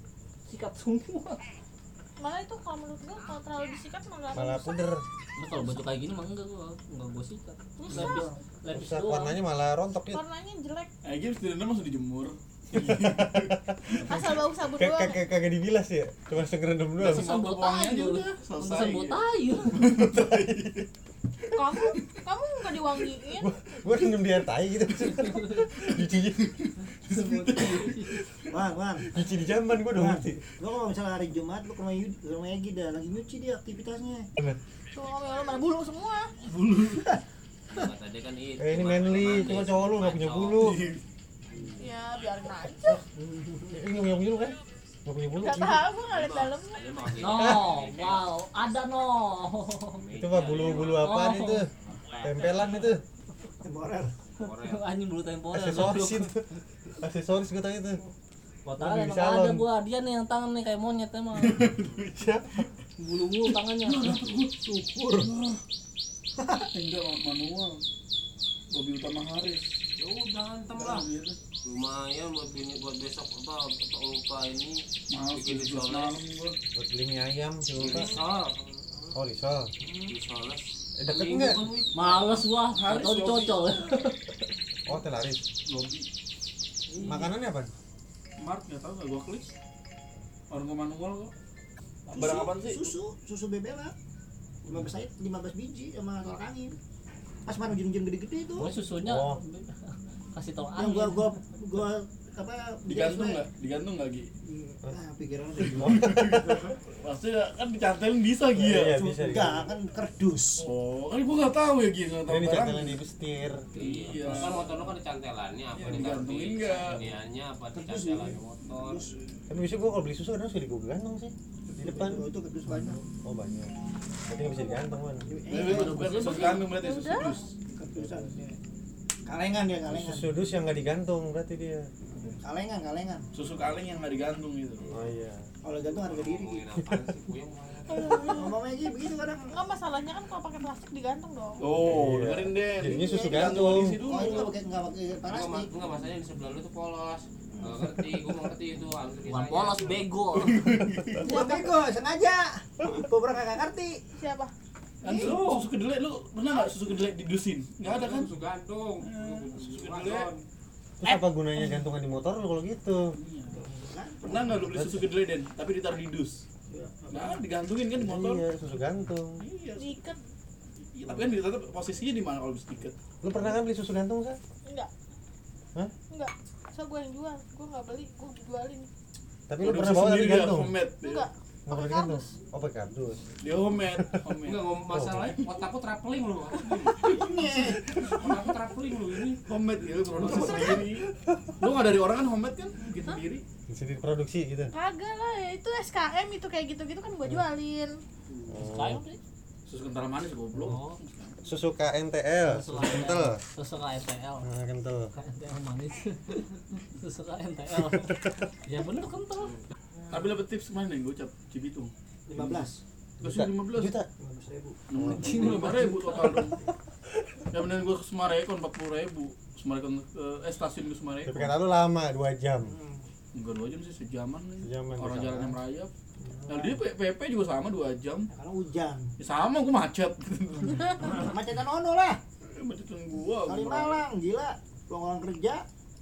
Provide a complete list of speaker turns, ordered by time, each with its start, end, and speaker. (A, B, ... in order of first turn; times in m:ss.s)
0:00.5-0:01.4 A
0:02.2-0:04.9 B
0:04.3-0:05.0 C
0:05.4-0:09.4 A
0:07.8-0:08.3 B
0:07.9-0:08.4 D
0:08.7-0:10.2 C
0:10.1-0:10.9 B
0:11.0-0:14.4 E
0:12.7-0:14.0 C
0:14.0-0:15.2 B
0:14.7-0:17.3 C
0:17.0-0:20.9 E
0:17.0-0:19.9 A
0:21.5-0:23.5 B
0:21.6-0:22.2 E
0:23.4-0:26.5 C
0:25.8-0:28.3 E
0:27.0-0:28.2 A
0:28.5-0:29.1 D
0:29.1-0:30.4 C
0:29.9-0:34.3 D
0:34.9-0:36.3 B
0:36.4-0:37.1 E
0:37.7-0:40.7 F
0:38.6-0:40.8 C
0:40.6-0:41.0 E
0:41.8-0:43.0 B
0:43.7-0:45.8 C
0:45.4-0:46.8 B
0:46.1-0:48.2 F
0:47.2-0:50.0 A
0:49.9-0:51.2 F
0:50.2-0:51.7 C
0:51.0-0:51.6 A
0:52.1-0:52.6 F
0:52.2-0:53.0 C
0:53.6-0:54.1 D
0:54.4-0:54.9 F
0:54.4-0:56.3 A
0:55.5-0:56.4 C
0:57.0-0:58.0 C
0:58.6-1:01.6 A
0:58.8-0:59.6 C
1:01.3-1:02.1 E
1:02.1-1:02.6 C
1:03.0-1:04.2 A
1:03.8-1:04.6 E
1:04.6-1:05.3 D
1:05.2-1:05.6 E
1:06.6-1:07.8 E
1:08.7-1:09.8 E
1:10.0-1:11.1 F
1:10.7-1:11.4 E
1:11.6-1:16.2 F
1:15.1-1:16.6 E
1:16.7-1:18.1 C
1:17.7-1:19.2 F
1:19.1-1:19.7 C
1:20.0-1:22.4 F
1:21.0-1:21.7 C
1:21.9-1:24.3 A
1:22.7-1:23.8 E
1:24.8-1:25.4 C
1:25.6-1:26.1 E
1:26.9-1:27.2 A
1:27.0-1:27.7 C
1:28.4-1:29.5 E
1:30.5-1:31.3 E
1:32.1-1:33.0 E
1:32.1-1:33.9 D
1:34.6-1:36.8 D
1:37.4-1:38.7 D
1:38.6-1:41.3 A
1:39.0-1:39.4 C
1:40.8-1:43.4 D
1:42.8-1:44.3 E
1:44.4-1:46.2 D
1:45.6-1:49.0 E
1:45.8-1:46.6 C
1:48.5-1:49.7 C
1:48.9-1:50.6 D
1:50.6-1:53.0 E
1:52.3-1:53.6 C
1:53.7-1:59.1 F
1:53.8-1:54.8 E
1:55.8-1:57.1 E
1:57.7-1:59.1 D
1:59.5-2:02.2 C
2:01.8-2:03.0 D
2:03.2-2:03.7 C
2:04.3-2:05.3 C
2:04.4-2:05.0 B
2:05.2-2:06.3 D
2:05.5-2:07.5 E
2:05.5-2:06.7 A
2:06.4-2:07.4 B
2:07.6-2:08.6 D
2:07.9-2:08.3 C
2:09.2-2:10.5 D
2:09.9-2:11.9 C
2:12.4-2:13.2 D
2:13.3-2:14.9 E
2:14.9-2:15.5 C
2:15.6-2:16.6 D
2:15.9-2:18.4 F
2:16.9-2:17.1 C
2:17.9-2:18.5 E
2:18.3-2:19.6 D
2:19.5-2:21.8 B
2:21.6-2:24.5 E
2:21.8-2:24.0 C
2:23.2-2:23.5 B
2:24.0-2:25.7 D
2:24.2-2:24.5 F
2:25.2-2:30.0 F
2:27.5-2:27.9 D
2:29.2-2:30.7 A
2:30.3-2:31.3 E
2:31.2-2:34.0 D
2:31.2-2:31.8 B
2:34.1-2:34.5 B
2:35.0-2:38.3 E
2:35.0-2:35.4 D
2:35.2-2:35.5 A
2:37.8-2:40.4 F
2:39.0-2:40.3 E
2:41.0-2:43.0 C
2:43.2-2:43.6 E
2:43.5-2:44.5 D
2:44.2-2:46.4 E
2:44.5-2:45.1 C
2:46.7-2:47.4 D
2:47.1-2:48.5 E
2:48.0-2:49.4 C
2:49.4-2:50.1 E
2:49.8-2:50.2 B
2:50.9-2:53.5 E
2:53.2-2:54.4 C
2:56.1-2:58.9 B
2:59.5-3:00.7 C
2:59.6-3:01.3 E
3:01.0-3:02.4 B
3:01.7-3:03.3 C
3:03.4-3:05.5 E
3:04.4-3:07.1 F
3:04.9-3:05.3 C
3:06.6-3:08.1 E
3:07.1-3:08.4 D
3:08.0-3:09.4 F
3:09.5-3:11.1 E
3:10.2-3:10.9 B
3:11.6-3:13.4 E
3:13.7-3:14.7 C
3:14.7-3:17.9 B
3:18.5-3:19.0 C
3:18.6-3:19.2 A
3:19.6-3:21.4 E
3:20.6-3:21.0 A
3:21.4-3:23.4 C
3:22.4-3:24.4 A
3:24.4-3:25.1 C
3:25.1-3:29.6 A
3:30.1-3:32.7 E
3:32.3-3:32.8 D
3:33.2-3:33.9 E
3:33.2-3:34.1 C
3:34.2-3:34.8 D
3:34.9-3:36.6 E
3:35.0-3:35.4 C
3:35.1-3:36.4 A
3:35.4-3:35.7 D
3:37.5-3:41.5 E
3:41.3-3:42.7 C
3:42.6-3:43.0 D
3:43.3-3:45.9 E
3:44.6-3:45.6 C
3:46.2-3:46.7 D
3:46.5-3:48.3 E
3:48.3-3:49.1 D
3:49.2-3:51.3 E
3:50.8-3:52.2 D
3:52.5-3:54.0 E
3:53.4-3:55.6 D